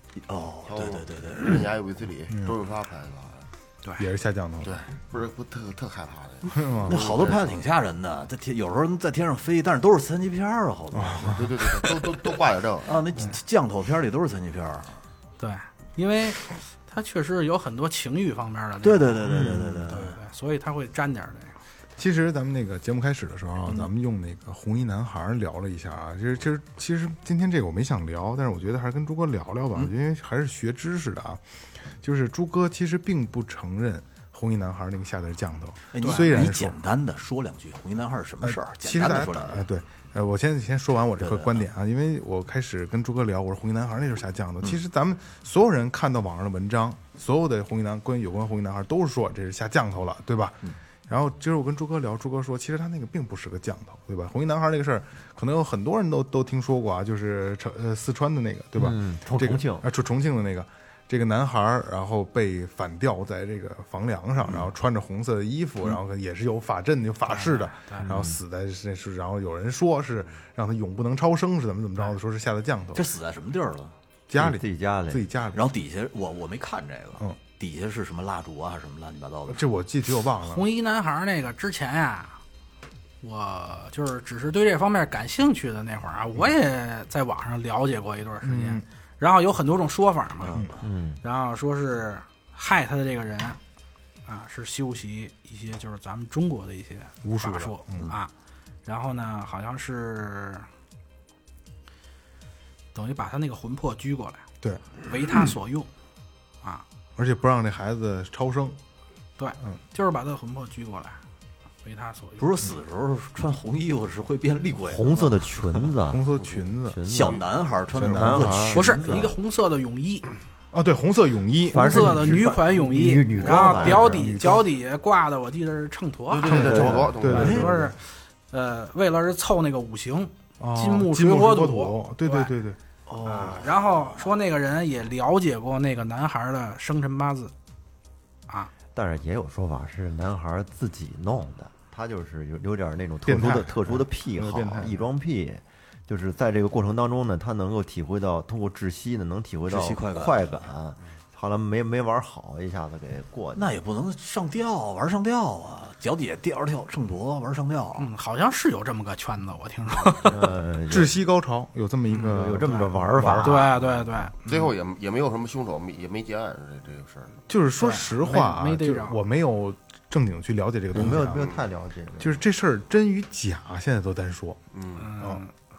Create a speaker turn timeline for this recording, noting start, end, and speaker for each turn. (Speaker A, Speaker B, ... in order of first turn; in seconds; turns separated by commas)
Speaker A: 0.2-1.6, Speaker B: 0.7-3.5, Speaker C: 4.0-4.8, Speaker B: 4.6-7.6, Speaker C: 6.5-7.0, Speaker A: 6.8-12.1, Speaker C: 10.9-11.5, Speaker B: 11.2-13.0, Speaker A: 12.8-15.0, Speaker D: 15.4-21.6, Speaker A: 18.8-20.2, Speaker C: 19.2-20.0, Speaker C: 22.0-31.4, Speaker C: 32.0-36.8, Speaker A: 35.9-39.6, Speaker D: 36.0-36.3, Speaker C: 38.4-73.1, Speaker A: 41.2-41.6, Speaker E: 58.8-59.8, Speaker D: 67.3-68.1, Speaker E: 68.0-68.3, Speaker A: 72.9-73.9, Speaker C: 74.3-75.7, Speaker E: 74.3-75.2, Speaker A: 75.5-79.6, Speaker C: 79.5-80.7, Speaker D: 80.5-82.4, Speaker D: 83.2-90.7, Speaker C: 88.4-88.8, Speaker A: 90.4-90.7, Speaker E: 90.8-91.2, Speaker D: 91.2-93.6, Speaker D: 94.2-98.3, Speaker C: 97.2-98.1, Speaker D: 98.8-100.7, Speaker D: 102.9-104.4, Speaker D: 105.0-105.9, Speaker C: 107.2-108.8, Speaker D: 109.4-111.2, Speaker D: 111.8-112.5, Speaker A: 112.4-115.9, Speaker E: 114.8-116.2, Speaker C: 116.1-117.0, Speaker E: 116.8-117.4, Speaker A: 117.1-119.3, Speaker C: 117.9-118.6, Speaker E: 118.0-119.3, Speaker D: 118.7-120.3, Speaker C: 120.7-122.3, Speaker E: 121.7-124.2, Speaker D: 121.7-132.5, Speaker C: 123.4-124.7, Speaker B: 126.3-127.9, Speaker C: 126.4-127.7, Speaker E: 126.5-127.2, Speaker A: 127.3-127.7, Speaker C: 130.6-133.7, Speaker A: 133.1-134.2, Speaker D: 133.5-137.5, Speaker E: 138.9-153.7, Speaker C: 143.2-145.0, Speaker A: 149.7-150.7, Speaker A: 153.5-158.1, Speaker D: 158.0-160.4, Speaker E: 160.2-161.1, Speaker C: 160.9-163.9, Speaker E: 162.3-163.6, Speaker D: 163.4-164.7, Speaker B: 164.5-167.4, Speaker C: 167.5-171.5, Speaker D: 167.8-169.2, Speaker E: 170.9-172.4, Speaker B: 171.2-171.6, Speaker C: 172.2-174.6, Speaker B: 174.7-175.1, Speaker D: 175.0-175.5